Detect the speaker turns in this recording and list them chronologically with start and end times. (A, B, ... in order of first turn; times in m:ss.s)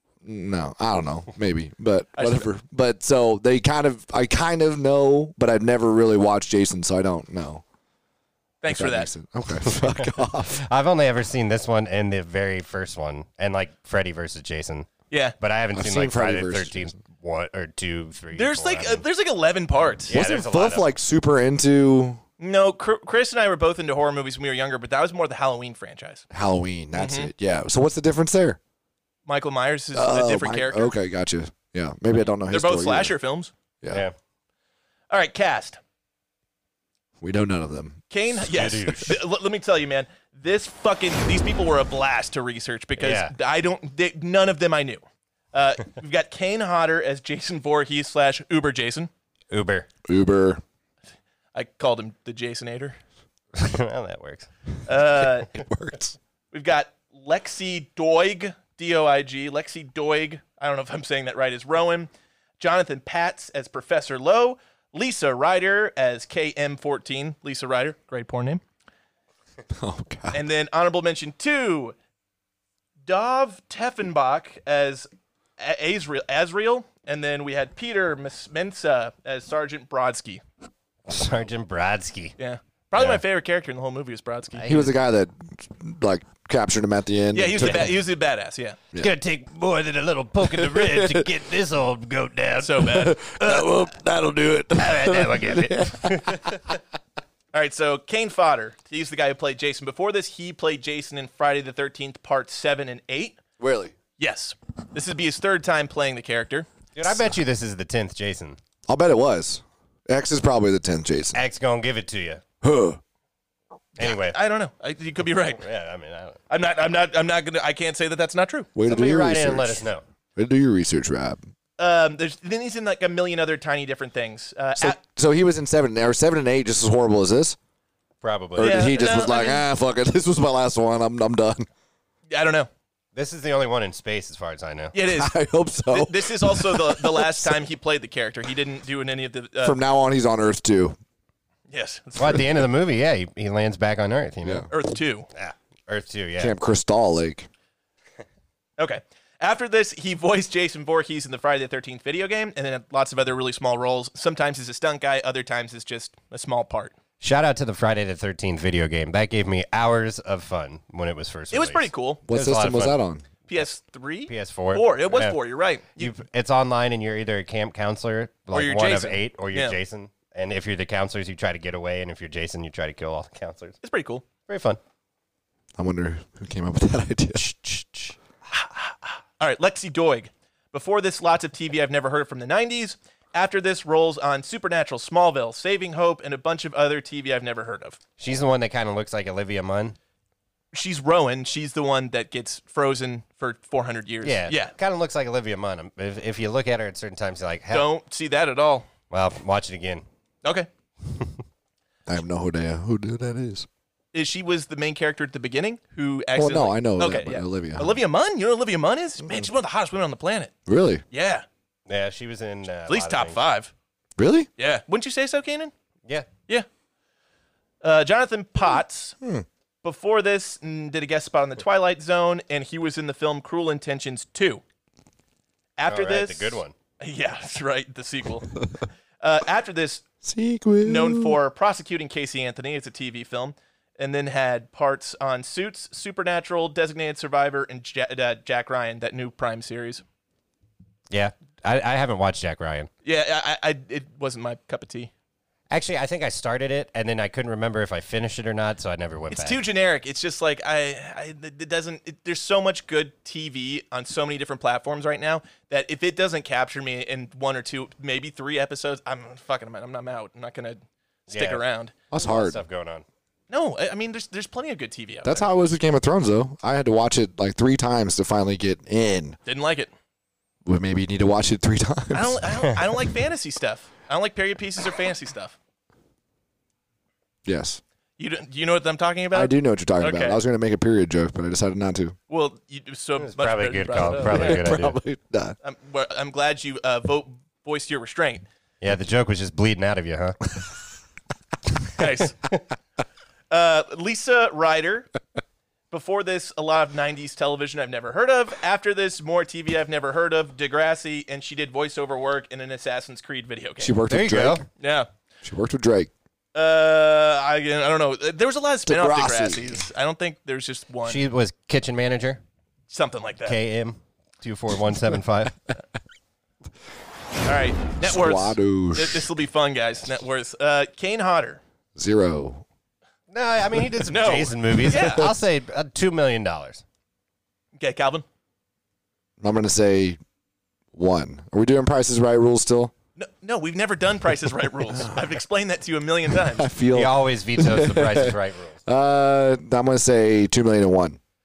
0:00.2-0:07.6 A
0:02.2-0:02.5 B
0:08.6-0:09.1 B
0:08.7-0:10.6 A
0:09.8-0:14.9 C
0:15.1-0:15.4 B
0:15.4-0:19.0 C
0:15.7-0:17.0 A
0:18.3-0:20.1 B
0:20.1-0:20.9 C
0:20.1-0:22.2 A
0:22.4-0:26.2 B
0:26.3-0:28.6 A
0:26.9-0:27.3 B
0:29.3-0:30.9 B
0:29.9-0:33.1 A
0:32.5-0:33.5 B
0:35.1-0:35.8 B
0:37.2-0:38.0 A
0:38.1-0:45.0 B
0:38.5-0:39.2 C
0:43.0-0:43.3 C
0:45.5-0:49.1 B
0:49.5-0:49.9 C
0:50.0-0:50.6 A
0:51.5-0:53.0 B
0:53.5-0:54.5 C
0:54.8-0:55.5 B
0:55.5-0:56.2 A
0:56.5-1:08.6 B
1:09.7-1:10.4 A
1:10.3-1:11.9 B
1:13.0-1:15.1 B
1:15.6-1:20.4 B
1:21.1-1:22.3 C
1:22.4-1:24.9 B
1:24.6-1:24.9 C
1:24.6-1:28.0 A
1:27.3-1:28.8 B
1:29.0-1:32.9 C
1:30.4-1:31.3 A
1:32.6-1:33.2 B
1:32.8-1:36.6 A
1:34.8-1:36.6 C
1:37.5-1:43.4 B
1:43.6-1:43.9 A
1:44.2-1:46.7 B
1:47.0-1:48.6 C
1:48.9-1:51.4 A
1:51.3-1:52.4 C
1:52.6-1:53.0 A
1:54.0-1:54.4 C
1:54.0-1:55.6 B
1:55.6-1:56.4 C
1:56.5-1:58.7 B
1:58.7-1:59.8 A
1:58.8-2:00.0 C
2:00.4-2:01.4 A
2:01.8-2:05.0 B
2:04.8-2:07.6 A
2:08.2-2:08.9 C
2:08.6-2:11.7 A
2:08.6-2:09.6 B
2:12.3-2:12.7 B
2:13.1-2:15.0 C
2:14.9-2:15.4 B
2:15.0-2:17.6 A
2:15.9-2:19.8 B
2:19.6-2:21.0 A
2:21.7-2:22.6 B
2:22.2-2:24.7 C
2:24.7-2:25.3 B
2:25.3-2:26.5 C
2:26.4-2:27.5 A
2:28.8-2:37.0 B
2:37.2-2:43.0 C
2:41.5-2:42.2 B
2:42.2-2:43.2 A
2:43.5-2:46.1 B
2:44.3-2:45.4 C
2:46.0-2:53.8 C
2:48.5-2:49.8 B
2:53.8-2:54.2 B
2:54.5-2:54.8 C
2:55.8-2:58.1 A
2:58.5-3:08.0 B
3:08.2-3:10.0 C
3:10.7-3:14.7 B
3:14.2-3:17.9 C
3:17.7-3:18.9 B
3:19.1-3:20.0 C
3:22.1-3:23.7 A
3:24.1-3:30.5 B
3:26.3-3:28.0 A
3:30.7-3:31.0 A
3:31.1-3:31.4 B
3:31.9-3:33.4 C
3:32.9-3:33.7 B
3:34.2-3:34.5 A
3:34.6-3:35.7 B
3:37.8-3:39.2 B
3:39.8-3:44.6 B
3:45.8-3:48.6 B
3:45.9-3:46.7 C
3:49.2-3:50.0 B
3:50.2-3:51.4 A
3:50.8-4:00.0 B
4:01.1-4:02.9 C
4:03.0-4:05.1 B
4:05.7-4:09.6 C
4:09.3-4:21.9 B
4:21.3-4:21.6 C
4:22.1-4:22.6 A
4:22.1-4:23.0 C
4:23.5-4:25.5 B
4:25.2-4:29.4 A
4:29.4-4:29.9 B
4:30.6-4:32.5 A
4:32.1-4:35.6 B
4:37.4-4:37.8 A
4:38.2-4:40.4 B
4:39.3-4:42.2 A
4:42.3-4:44.7 B
4:43.2-4:45.0 C
4:44.1-4:45.6 A
4:45.6-4:48.4 B
4:48.8-4:50.4 C
4:52.0-4:52.4 B
4:53.5-4:55.1 B
4:55.9-5:03.9 B
5:03.8-5:04.6 A
5:04.1-5:04.6 C
5:04.8-5:05.1 B
5:05.4-5:06.1 A
5:06.5-5:11.2 B
5:08.8-5:09.8 A
5:11.0-5:12.4 C
5:12.9-5:13.6 B
5:13.4-5:15.5 C
5:17.4-5:21.6 B
5:18.0-5:19.3 A
5:21.9-5:22.6 A
5:23.3-5:26.8 C
5:24.1-5:25.3 B
5:27.8-5:28.2 B
5:29.4-5:30.2 A
5:30.9-5:32.9 A
5:33.2-5:36.7 B
5:36.4-5:41.2 A
5:36.9-5:38.8 C